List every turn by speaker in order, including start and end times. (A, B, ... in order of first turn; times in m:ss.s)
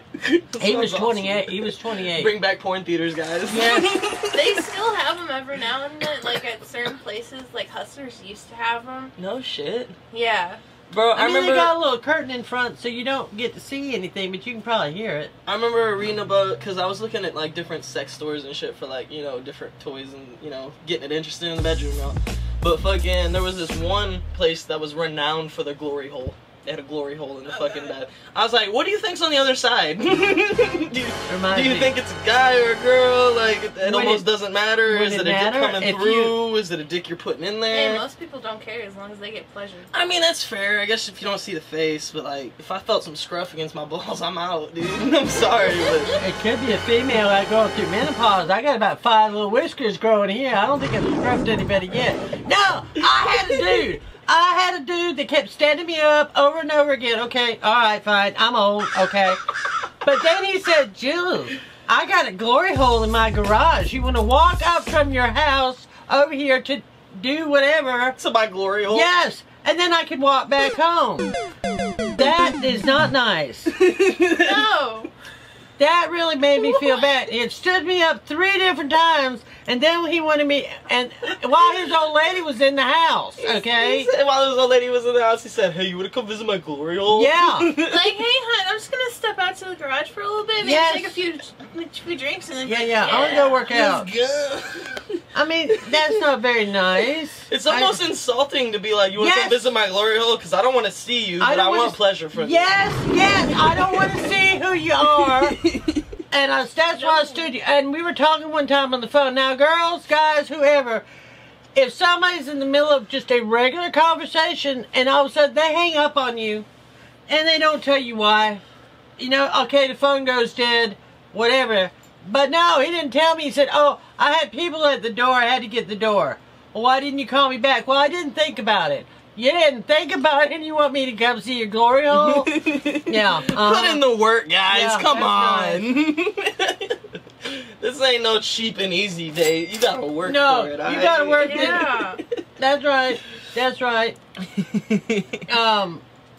0:00.2-0:04.6 A
0:00.6-0:02.3 B
0:03.5-0:03.9 B
0:04.3-0:09.1 C
0:09.2-0:10.0 A
0:10.1-0:10.6 C
0:10.9-0:11.7 A
0:11.2-0:15.3 B
0:15.4-0:38.0 A
0:27.5-0:28.0 C
0:31.3-0:31.9 B
0:33.8-0:34.3 B
0:34.8-0:36.3 B
0:37.7-0:39.9 C
0:39.9-0:46.2 A
0:46.2-0:59.4 B
1:00.0-1:08.2 B
1:08.2-1:09.1 A
1:08.9-1:11.3 B
1:12.1-1:13.7 B
1:13.7-1:14.6 A
1:14.3-1:15.1 C
1:15.8-1:24.1 B
1:23.4-1:28.1 A
1:27.1-1:27.7 B
1:27.8-1:33.7 C
1:30.6-1:31.2 B
1:32.6-1:34.1 B
1:33.1-1:35.2 A
1:35.3-1:38.0 B
1:35.8-1:36.2 A
1:37.5-1:42.8 A
1:39.2-1:39.7 B
1:41.4-1:45.6 B
1:43.5-1:44.1 A
1:45.2-1:46.0 A
1:46.3-1:51.0 B
1:46.9-1:47.5 C
1:51.7-1:56.6 B
1:57.3-1:58.6 B
1:59.2-2:12.5 B
2:12.1-2:22.4 A
2:13.1-2:14.0 B
2:14.7-2:15.8 B
2:20.2-2:21.9 B
2:21.4-2:22.2 C
2:22.6-2:24.2 B
2:24.6-2:25.4 A
2:25.5-2:26.0 B